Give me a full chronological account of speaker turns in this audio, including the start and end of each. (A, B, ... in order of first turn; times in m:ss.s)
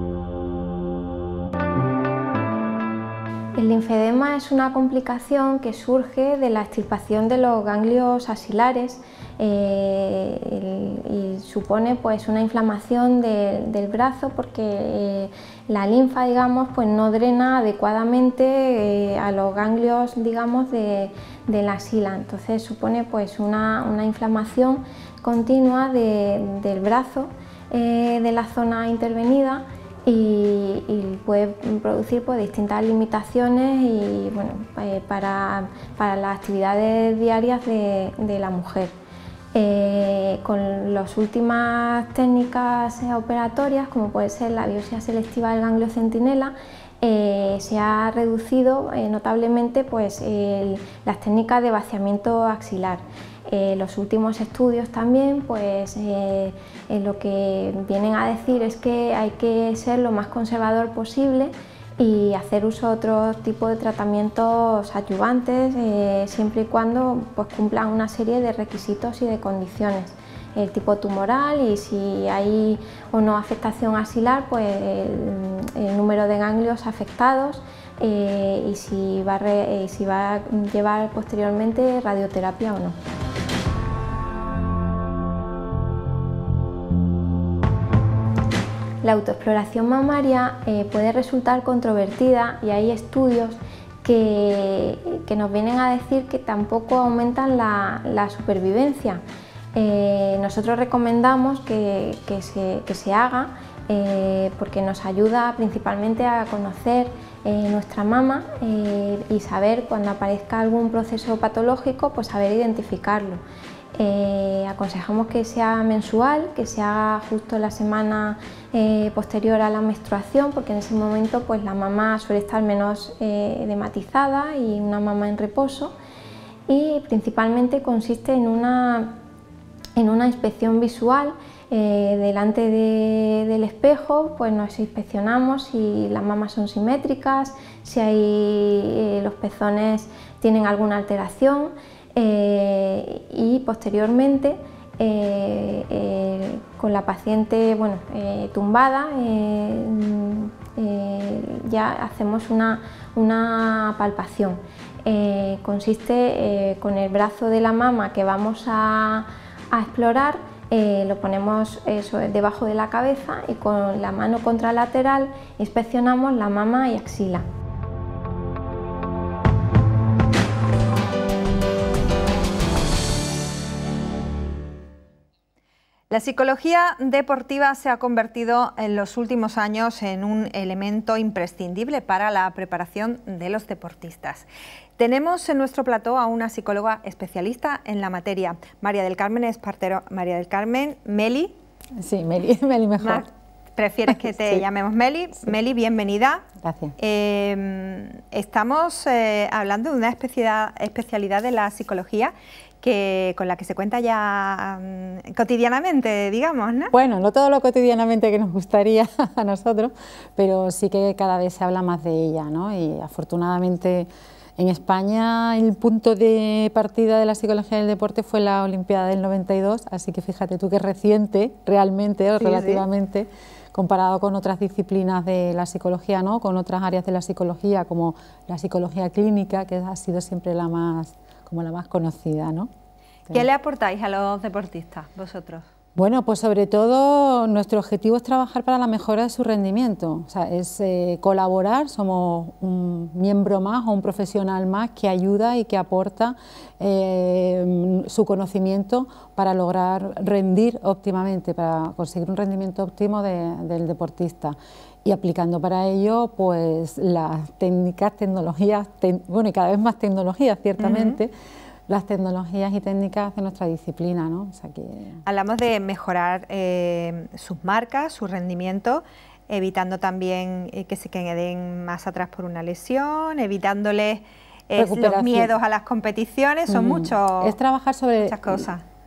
0:03.6-0:38.9 A
0:39.5-1:23.0 A
1:29.0-1:39.2 A
1:39.8-1:53.4 A
1:54.0-2:05.9 A
2:06.7-2:09.2 A
2:10.0-2:47.4 A
2:56.1-3:04.5 B
3:05.0-3:11.6 B
3:12.0-3:13.3 C
3:13.0-3:16.4 B
3:14.1-3:14.6 C
3:16.6-3:17.0 C
3:17.0-3:26.9 B
3:26.9-3:52.7 C
3:42.4-3:42.8 B
3:53.3-3:55.7 B
3:56.0-4:21.3 C
4:20.8-4:21.2 B
4:21.9-4:25.2 C
4:25.2-4:37.6 B
4:34.8-4:35.5 C
4:36.7-4:38.7 C
4:38.2-4:38.8 B